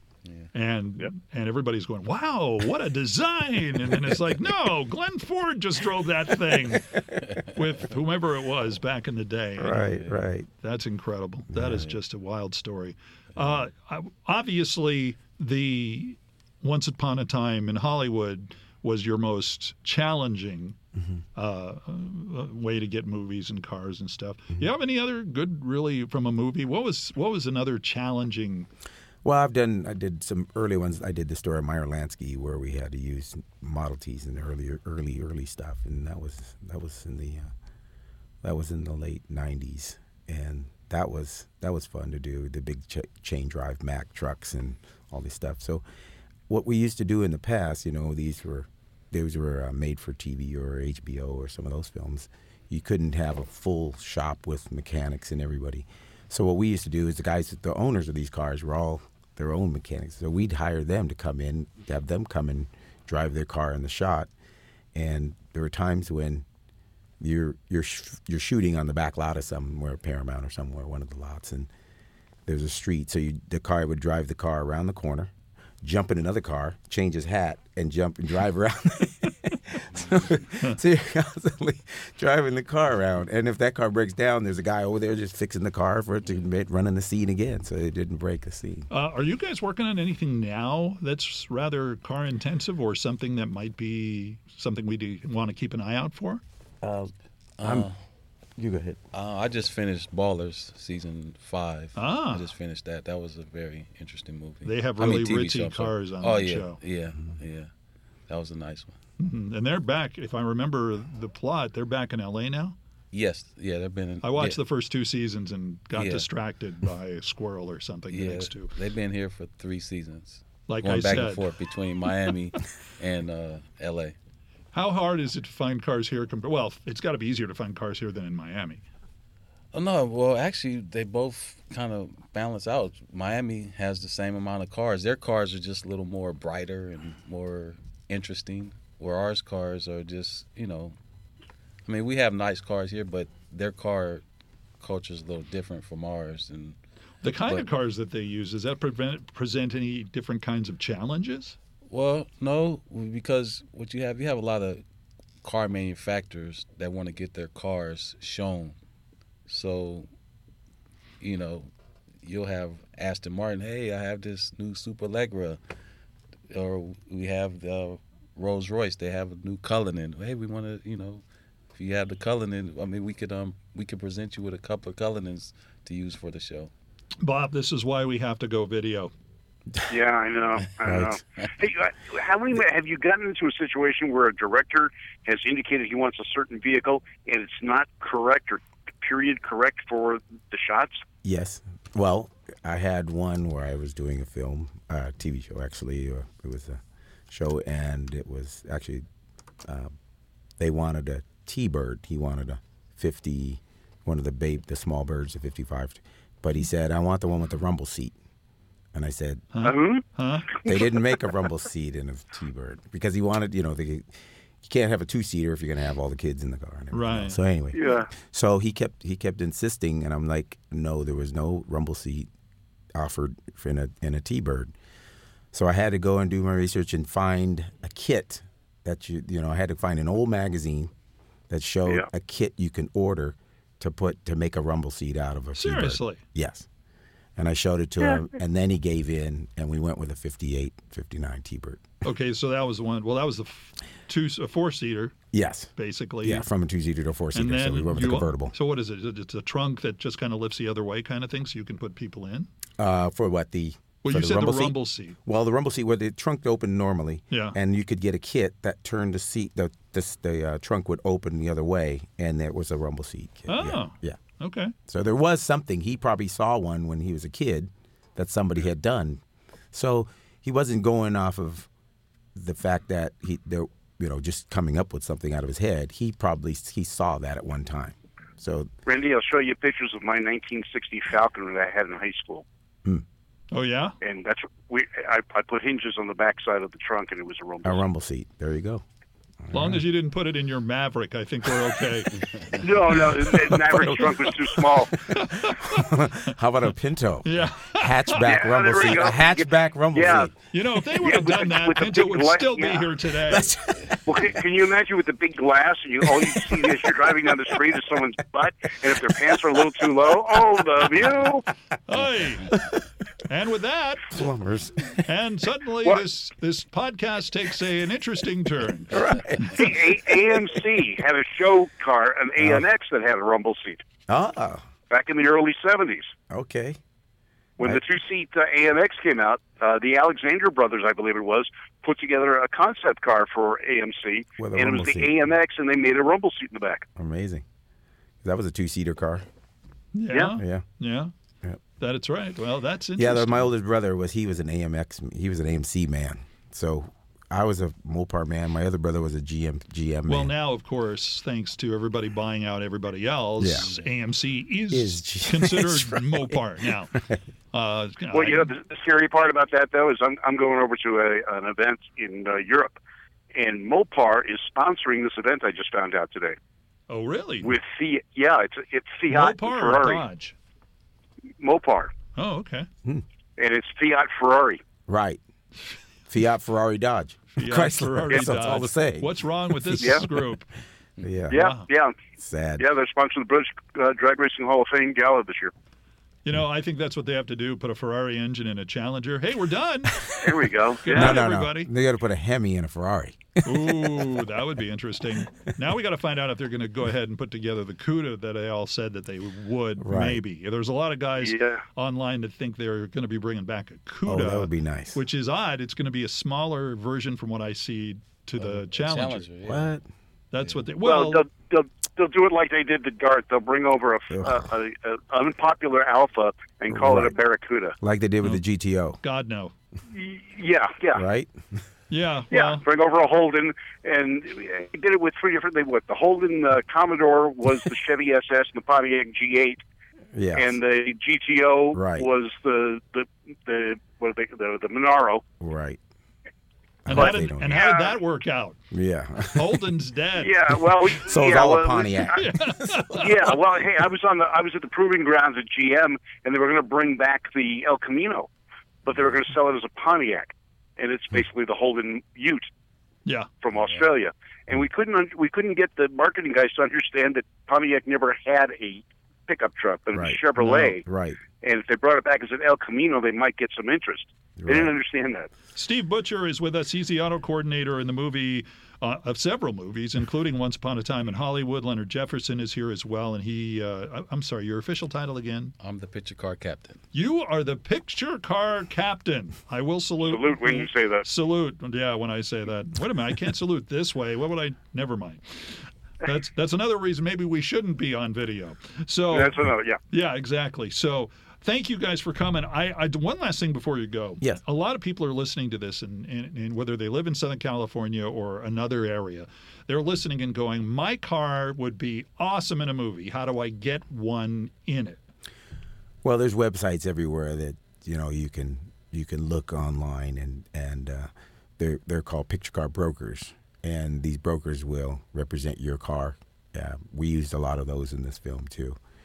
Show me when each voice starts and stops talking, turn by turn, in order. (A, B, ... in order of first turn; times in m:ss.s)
0:00.5-0:09.9 A
0:09.6-0:10.5 B
0:10.6-0:20.8 A
0:21.4-0:28.7 A
0:29.2-0:37.5 B
0:38.4-0:45.8 B
0:46.5-1:04.3 B
1:05.0-1:06.4 B
1:07.2-1:11.7 B
1:12.5-1:15.3 B
1:15.8-1:28.9 B
1:28.9-1:36.4 A
1:36.8-1:37.9 B
1:37.6-1:38.0 C
1:38.6-1:39.0 B
1:39.1-1:47.7 C
1:42.0-1:42.5 A
1:44.6-1:46.8 A
1:48.3-1:49.0 C
1:49.2-1:52.8 A
1:53.1-1:54.6 C
1:54.2-1:58.7 A
1:56.0-1:56.3 C
1:58.1-2:04.2 C
2:00.7-2:01.5 A
2:04.7-2:08.8 A
2:09.7-2:21.0 C
2:21.9-2:24.2 C
2:24.8-2:26.8 C
2:27.2-2:31.6 A
2:31.9-2:34.8 C
2:35.4-2:38.8 C
2:39.5-2:40.1 C
2:41.2-2:41.7 C
2:42.2-2:45.6 C
2:46.5-2:51.2 C
2:51.8-2:56.7 C
2:57.2-2:59.1 A
2:59.9-3:11.0 D
3:00.8-3:01.2 B
3:11.2-3:19.0 B
3:19.6-3:19.9 B
3:20.6-3:28.2 B
3:28.9-3:29.5 B
3:29.5-3:30.5 A
3:29.6-3:30.9 D
3:30.6-3:34.1 B
3:34.6-3:42.3 B
3:36.9-3:37.4 A
3:37.7-3:38.1 D
3:43.0-3:44.7 B
3:45.5-3:50.9 B
3:51.5-3:56.7 B
3:55.6-3:56.2 A
3:57.4-4:01.8 B
4:02.0-4:05.1 A
4:05.3-4:05.7 B
4:05.8-4:06.5 A
4:06.2-4:08.5 B
4:07.3-4:12.5 A
4:12.8-4:24.2 B
4:14.0-4:15.2 A
4:17.3-4:17.6 A
4:23.5-4:24.7 A
4:24.9-4:29.2 B
4:29.7-4:31.7 B
4:32.4-4:38.7 B
4:38.9-4:42.4 D
4:43.5-4:44.0 A
4:44.0-4:47.8 D
4:47.6-4:48.8 B
4:49.4-4:49.8 B
4:49.5-4:52.2 A
4:52.5-4:55.0 D
4:52.9-5:00.3 B
4:55.2-4:55.9 A
4:57.2-4:58.3 A
4:58.2-5:00.3 D
5:00.5-5:03.6 A
5:01.0-5:02.9 D
5:03.3-5:04.1 B
5:04.0-5:11.5 D
5:06.2-5:06.6 B
5:11.9-5:12.5 A
5:13.2-5:14.2 A
5:14.1-5:15.0 B
5:15.0-5:19.6 A
5:18.9-5:19.8 B
5:19.4-5:23.8 D
5:22.4-5:22.6 B
5:24.1-5:24.6 B
5:24.9-5:26.1 D
5:26.3-5:26.8 B
5:27.6-5:36.9 D
5:34.4-5:35.1 B
5:37.0-5:37.4 B
5:38.2-5:39.2 B
5:39.9-5:41.1 A
5:40.4-5:40.6 B
5:41.8-5:43.5 A
5:43.0-5:50.3 B
5:50.1-5:56.9 A
5:53.4-5:53.7 B
5:53.6-5:53.9 C
5:54.7-5:56.4 B
5:57.5-5:58.5 A
5:58.1-6:02.8 D
6:03.3-6:06.4 D
6:06.9-6:07.6 A
6:07.4-6:10.0 D
6:09.1-6:10.4 A
6:11.4-6:11.9 D
6:12.2-6:12.7 A
6:13.4-6:14.6 D
6:14.9-6:15.2 B
6:16.1-6:19.1 B
6:17.4-6:20.5 A
6:18.1-6:18.6 D
6:19.6-6:20.2 B
6:19.8-6:20.1 D
6:21.0-6:21.5 B
6:21.3-6:22.0 D
6:21.3-6:21.7 A
6:22.2-6:22.7 B
6:22.6-6:25.5 D
6:26.2-6:30.1 A
6:30.2-6:31.2 D
6:30.8-6:31.7 A
6:30.9-6:34.1 B
6:33.4-6:49.3 A
6:39.8-6:40.2 B
6:41.2-6:41.6 D
6:44.0-6:45.0 B
6:48.4-6:49.8 C
6:49.4-6:49.8 B
6:50.3-6:51.2 A
6:50.8-6:57.8 D
6:54.1-6:54.5 B
6:56.7-6:57.2 B
6:57.8-6:59.0 B
6:59.0-6:59.5 A
6:59.9-7:01.0 D
7:01.0-7:01.6 B
7:01.9-7:02.6 A
7:02.3-7:09.6 D
7:10.1-7:10.6 B
7:10.4-7:15.2 D
7:11.7-7:12.1 B
7:15.4-7:15.8 B
7:16.8-7:17.6 B
7:16.9-7:18.6 A
7:17.5-7:18.0 D
7:18.7-7:19.6 B
7:19.3-7:20.3 A
7:20.2-7:22.2 D
7:21.0-7:23.3 B
7:22.1-7:23.2 A
7:22.9-7:28.3 D
7:28.8-7:32.5 D
7:33.4-7:40.8 D
7:33.6-7:33.9 C
7:39.9-7:40.2 B
7:40.4-7:40.8 A
7:40.8-7:41.2 B
7:41.4-7:45.3 D
7:44.4-7:44.8 B
7:45.6-7:55.5 A
7:55.6-7:56.8 C
7:56.9-8:09.4 A
8:00.1-8:01.1 D
8:09.1-8:09.8 D
8:09.9-8:25.0 A
8:26.0-8:38.8 B